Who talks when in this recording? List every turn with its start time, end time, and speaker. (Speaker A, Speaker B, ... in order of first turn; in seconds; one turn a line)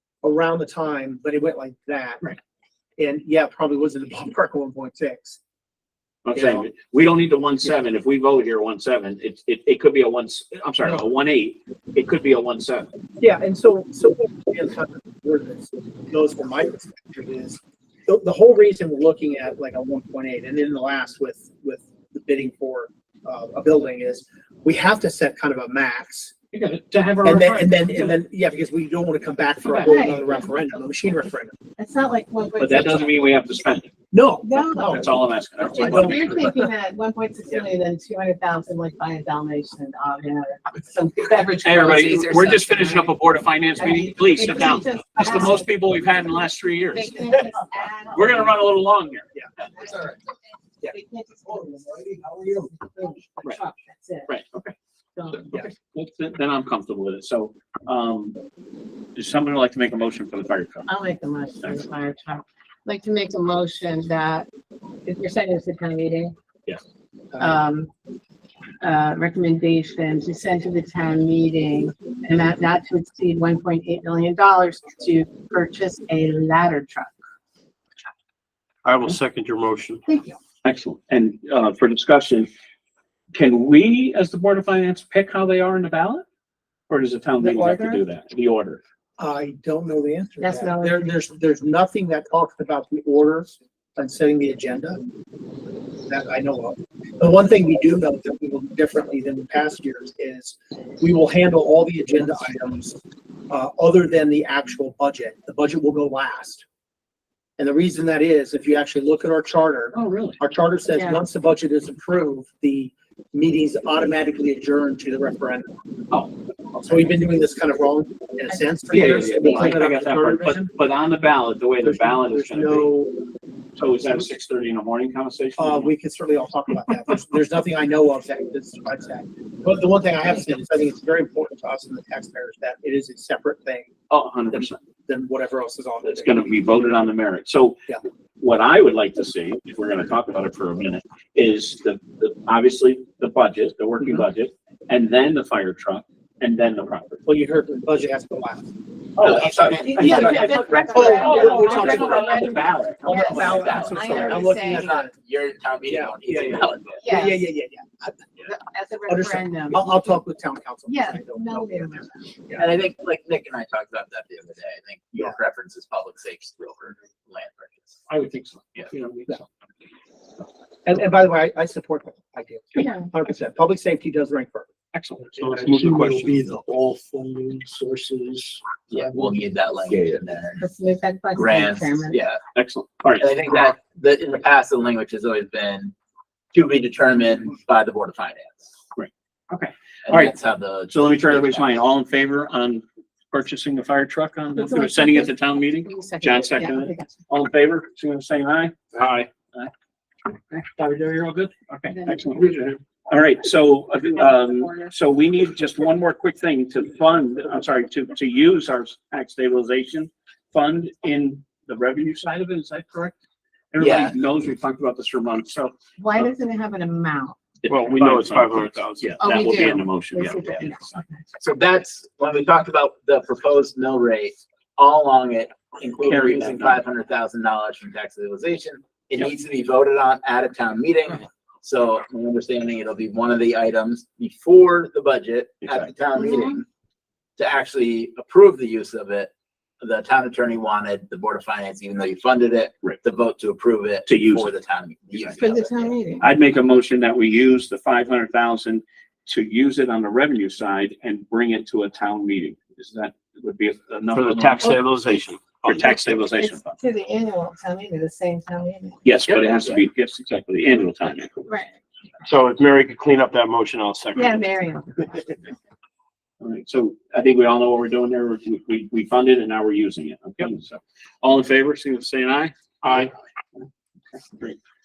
Speaker A: 0.2-2.2
Speaker A: 3.0-5.4
Speaker B: 6.2-12.9
Speaker A: 6.3-6.7
Speaker A: 13.2-26.3
Speaker B: 26.5-28.2
Speaker A: 27.2-31.6
Speaker B: 29.6-29.9
Speaker C: 29.8-30.3
Speaker C: 31.8-33.2
Speaker B: 32.6-33.9
Speaker A: 34.1-35.1
Speaker C: 34.4-43.1
Speaker B: 34.9-36.5
Speaker A: 35.7-36.5
Speaker B: 41.6-47.5
Speaker C: 43.8-45.7
Speaker C: 46.9-48.6
Speaker B: 48.1-49.2
Speaker C: 49.8-50.2
Speaker C: 50.8-54.3
Speaker B: 54.3-54.8
Speaker C: 55.2-55.6
Speaker B: 55.3-58.4
Speaker B: 59.2-60.9
Speaker C: 60.9-64.5
Speaker C: 65.0-66.3
Speaker A: 67.3-67.6
Speaker C: 67.4-67.9
Speaker C: 68.8-77.2
Speaker D: 78.8-80.0
Speaker C: 80.1-80.4
Speaker B: 80.6-82.5
Speaker B: 83.3-86.2
Speaker B: 86.9-88.8
Speaker C: 87.4-88.0
Speaker A: 89.2-95.0
Speaker C: 90.4-91.1
Speaker A: 96.1-106.6
Speaker A: 107.6-115.7
Speaker B: 109.9-110.4
Speaker C: 110.9-111.2
Speaker A: 116.7-120.7
Speaker B: 118.9-122.9
Speaker A: 121.8-123.2
Speaker B: 123.8-125.9
Speaker A: 125.6-133.9
Speaker B: 134.1-134.8
Speaker A: 135.1-136.6
Speaker B: 136.0-137.8
Speaker B: 138.4-147.2
Speaker A: 147.2-155.1
Speaker B: 149.2-153.5
Speaker E: 149.2-152.1
Speaker C: 150.0-155.0
Speaker E: 153.1-157.0
Speaker A: 155.8-158.3
Speaker C: 157.0-157.5
Speaker C: 158.4-159.9
Speaker A: 159.1-162.7
Speaker C: 160.9-162.2
Speaker E: 162.6-168.0
Speaker B: 168.1-169.4
Speaker A: 170.8-174.7
Speaker C: 172.8-173.1
Speaker B: 174.9-175.4
Speaker F: 175.3-180.2
Speaker D: 175.4-176.3
Speaker E: 178.9-180.7
Speaker C: 180.6-182.2
Speaker E: 181.3-182.4
Speaker B: 182.5-183.2
Speaker E: 183.2-185.9
Speaker E: 186.5-188.6
Speaker B: 188.9-190.3
Speaker E: 190.1-191.8
Speaker B: 190.9-199.7
Speaker C: 194.5-197.1
Speaker D: 199.0-199.3
Speaker B: 200.5-213.2
Speaker C: 201.9-202.5
Speaker C: 204.2-204.9
Speaker B: 213.7-216.3
Speaker E: 213.8-214.2
Speaker C: 216.0-217.4
Speaker B: 217.6-221.0
Speaker D: 217.7-219.2
Speaker C: 219.2-221.2
Speaker E: 221.4-236.6
Speaker B: 226.0-226.8
Speaker B: 235.6-235.9
Speaker C: 236.2-236.6
Speaker E: 237.4-245.8
Speaker B: 244.1-244.5
Speaker C: 245.2-246.3
Speaker B: 246.2-254.8
Speaker D: 254.1-256.2
Speaker B: 255.6-256.8
Speaker C: 256.4-259.1
Speaker B: 259.1-261.4
Speaker C: 261.4-261.7
Speaker D: 262.2-264.6
Speaker C: 264.1-265.3
Speaker B: 266.4-272.5
Speaker D: 272.8-273.1